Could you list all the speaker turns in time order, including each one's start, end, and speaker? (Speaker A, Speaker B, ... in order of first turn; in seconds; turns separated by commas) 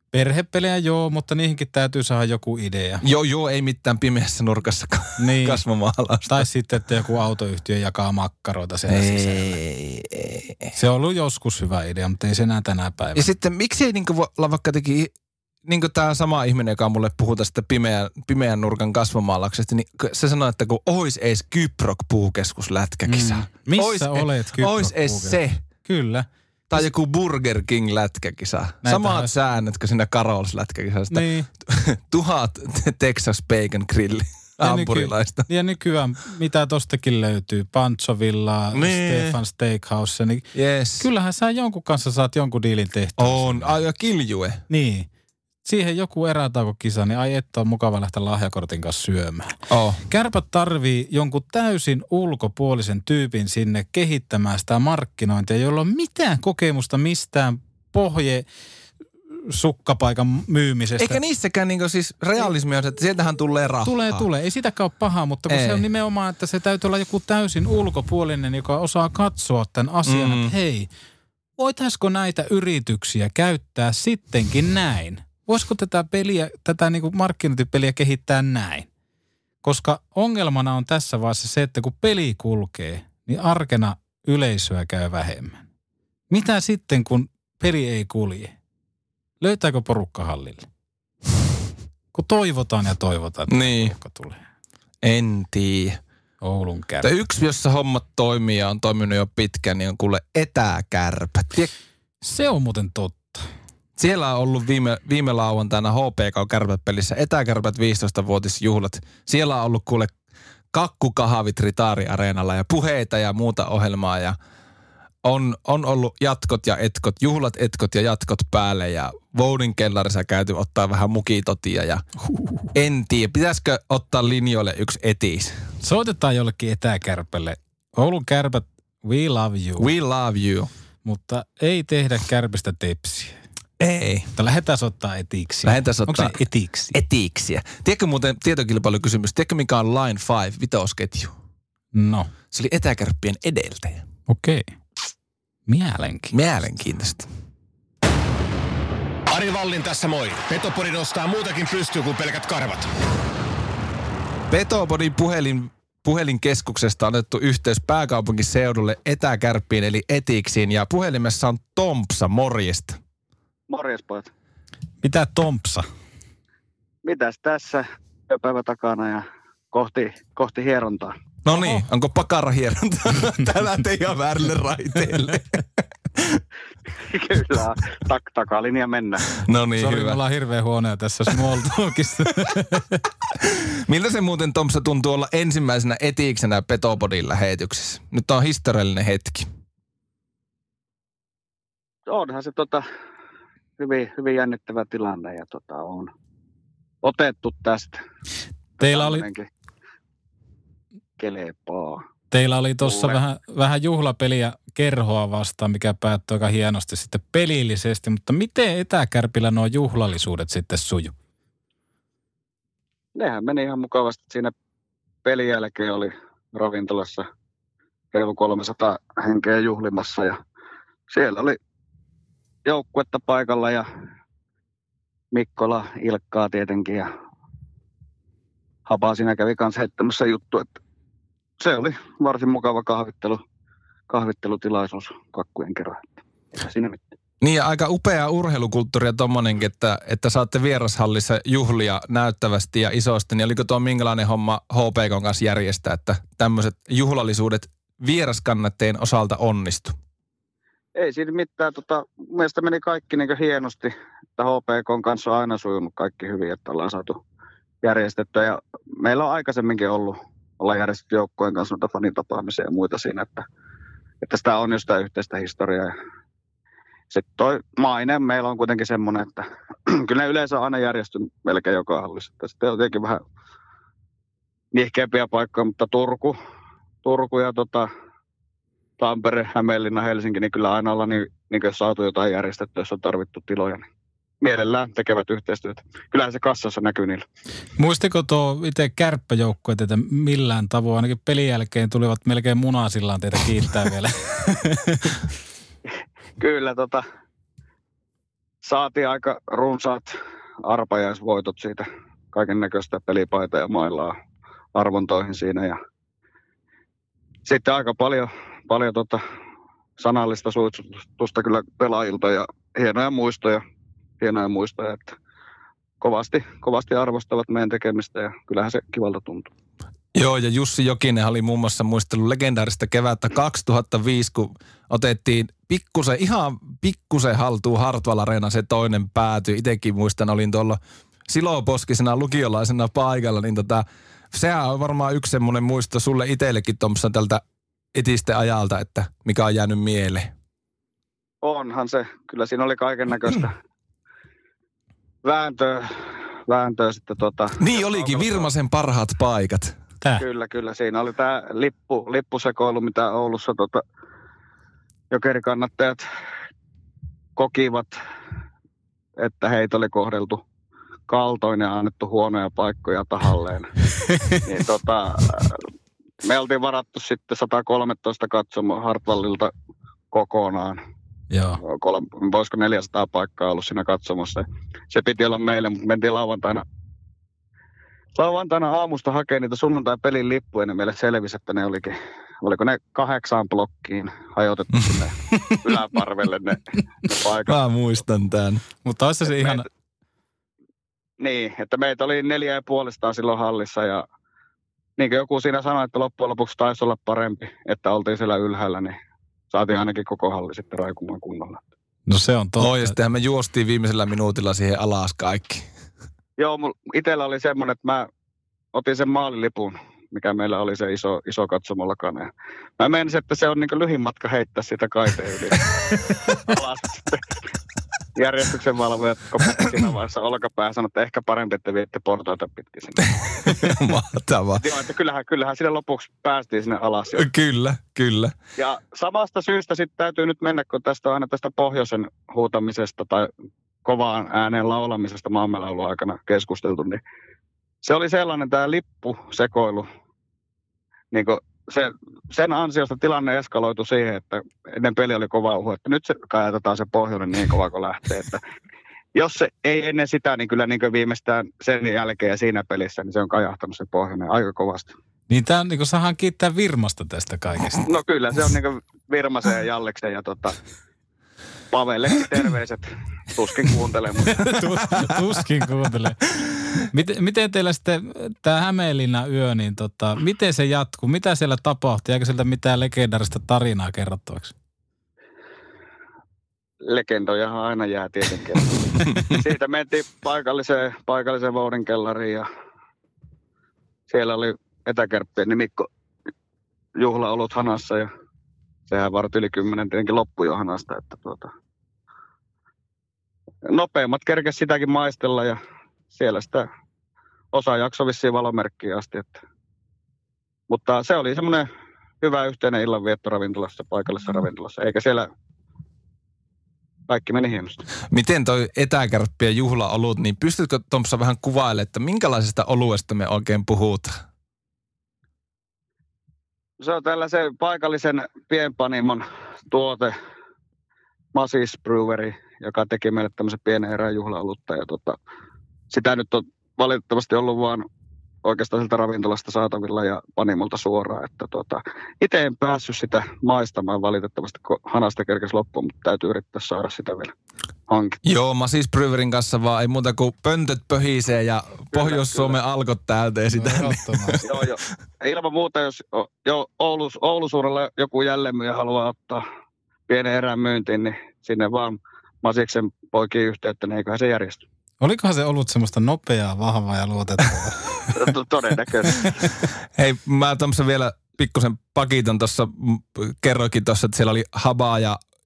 Speaker A: 0.1-3.0, Speaker B: 3.0-6.5, Speaker A: 5.2-5.6, Speaker A: 6.3-9.6, Speaker B: 8.9-10.7, Speaker A: 10.7-13.3, Speaker B: 13.2-15.1, Speaker B: 15.7-25.6, Speaker A: 23.1-26.3, Speaker B: 26.7-35.5, Speaker A: 28.8-29.3, Speaker A: 31.1-31.5, Speaker A: 34.6-40.5, Speaker B: 38.7-39.4, Speaker B: 40.5-41.1, Speaker A: 41.0-43.8, Speaker B: 43.2-44.6, Speaker A: 44.7-45.1, Speaker A: 45.6-58.5, Speaker B: 49.7-50.0, Speaker A: 59.5-61.2, Speaker B: 61.0-64.3, Speaker A: 63.9-70.9, Speaker B: 65.5-65.8, Speaker B: 70.1-70.5, Speaker A: 71.6-78.9, Speaker A: 79.6-85.6, Speaker A: 86.3-88.5, Speaker A: 89.4-90.7, Speaker A: 92.1-94.4, Speaker B: 93.5-93.9, Speaker B: 95.0-96.0, Speaker A: 96.4-97.1, Speaker B: 97.0-101.7, Speaker A: 102.2-103.5, Speaker B: 104.0-110.1, Speaker B: 110.7-114.4, Speaker B: 115.2-122.0, Speaker A: 122.3-122.7, Speaker B: 122.7-125.6, Speaker A: 125.8-129.9, Speaker B: 129.8-130.7, Speaker A: 131.1-133.3, Speaker B: 133.8-134.3, Speaker A: 134.4-137.0, Speaker B: 135.6-136.4, Speaker B: 136.9-141.3, Speaker A: 141.9-142.3, Speaker B: 142.5-144.0, Speaker A: 144.3-144.6, Speaker A: 145.7-146.3, Speaker B: 146.3-147.3, Speaker C: 149.3-152.9, Speaker B: 154.5-163.0, Speaker D: 163.7-164.3, Speaker A: 165.0-165.9, Speaker D: 167.0-171.2, Speaker B: 171.5-176.4, Speaker A: 171.6-171.8, Speaker D: 177.1-179.2, Speaker B: 179.4-180.2, Speaker A: 179.8-183.0, Speaker B: 183.5-189.5, Speaker D: 192.1-192.8, Speaker D: 193.8-196.1, Speaker D: 197.0-198.0, Speaker D: 198.8-199.5, Speaker A: 198.8-199.2, Speaker D: 201.2-202.0, Speaker A: 202.3-211.1, Speaker D: 202.8-203.2, Speaker D: 213.2-214.5, Speaker D: 215.2-217.3, Speaker D: 218.1-220.4, Speaker D: 221.1-221.6, Speaker D: 222.7-223.9, Speaker D: 225.3-227.1, Speaker D: 228.9-230.8, Speaker D: 231.6-233.4, Speaker D: 234.1-237.0, Speaker B: 237.4-250.0, Speaker D: 251.0-257.2, Speaker D: 257.8-263.5, Speaker D: 264.2-265.9, Speaker D: 267.1-273.2, Speaker D: 274.7-276.4, Speaker D: 277.0-277.9, Speaker D: 279.0-283.9, Speaker D: 284.4-287.2, Speaker A: 287.8-295.2, Speaker D: 296.4-297.0, Speaker D: 298.6-300.1, Speaker D: 300.6-304.1, Speaker D: 304.8-305.8, Speaker D: 307.4-309.2, Speaker D: 310.0-313.6, Speaker D: 314.2-315.1, Speaker D: 316.0-319.5, Speaker B: 320.1-337.4, Speaker B: 337.9-340.3, Speaker D: 341.4-343.6, Speaker D: 345.2-345.9, Speaker D: 346.5-348.5, Speaker B: 347.6-349.8, Speaker D: 350.2-353.8, Speaker D: 355.1-356.0, Speaker D: 357.4-357.9, Speaker D: 359.2-360.4, Speaker D: 361.1-363.7, Speaker D: 364.4-365.6, Speaker D: 366.2-369.5, Speaker D: 370.1-370.8, Speaker A: 371.3-371.6, Speaker D: 371.6-376.6, Speaker D: 378.1-387.6, Speaker B: 387.5-388.6, Speaker A: 388.8-389.7, Speaker D: 389.4-389.6, Speaker D: 391.2-394.0, Speaker D: 395.0-399.0, Speaker D: 399.5-401.6, Speaker A: 402.1-402.9, Speaker B: 402.6-405.7, Speaker D: 406.4-408.1, Speaker D: 408.7-415.6, Speaker D: 416.4-417.2, Speaker D: 418.2-423.1, Speaker B: 423.5-424.6, Speaker D: 424.6-427.3, Speaker B: 427.1-428.4, Speaker D: 428.6-433.3, Speaker D: 433.9-437.0, Speaker D: 437.8-439.9, Speaker D: 441.1-448.4, Speaker D: 449.1-454.9, Speaker A: 455.3-457.9, Speaker D: 457.8-460.6, Speaker D: 461.7-464.4, Speaker A: 464.3-466.2, Speaker A: 466.9-474.5, Speaker D: 476.8-478.7, Speaker D: 479.3-482.5, Speaker D: 484.1-485.9, Speaker D: 487.0-488.1, Speaker D: 488.9-491.5, Speaker D: 493.7-495.6, Speaker D: 496.1-496.7, Speaker D: 497.5-499.4, Speaker D: 500.7-501.7, Speaker D: 502.2-505.3, Speaker D: 507.1-507.8, Speaker B: 508.1-514.2, Speaker D: 516.8-520.1, Speaker D: 521.3-525.2, Speaker D: 525.9-527.9, Speaker D: 528.4-537.3, Speaker D: 537.9-538.2, Speaker B: 538.2-544.4, Speaker D: 541.9-542.6, Speaker A: 543.5-544.5, Speaker D: 544.4-549.4, Speaker D: 550.1-554.6, Speaker A: 555.0-557.8, Speaker D: 558.1-559.2, Speaker B: 560.0-565.2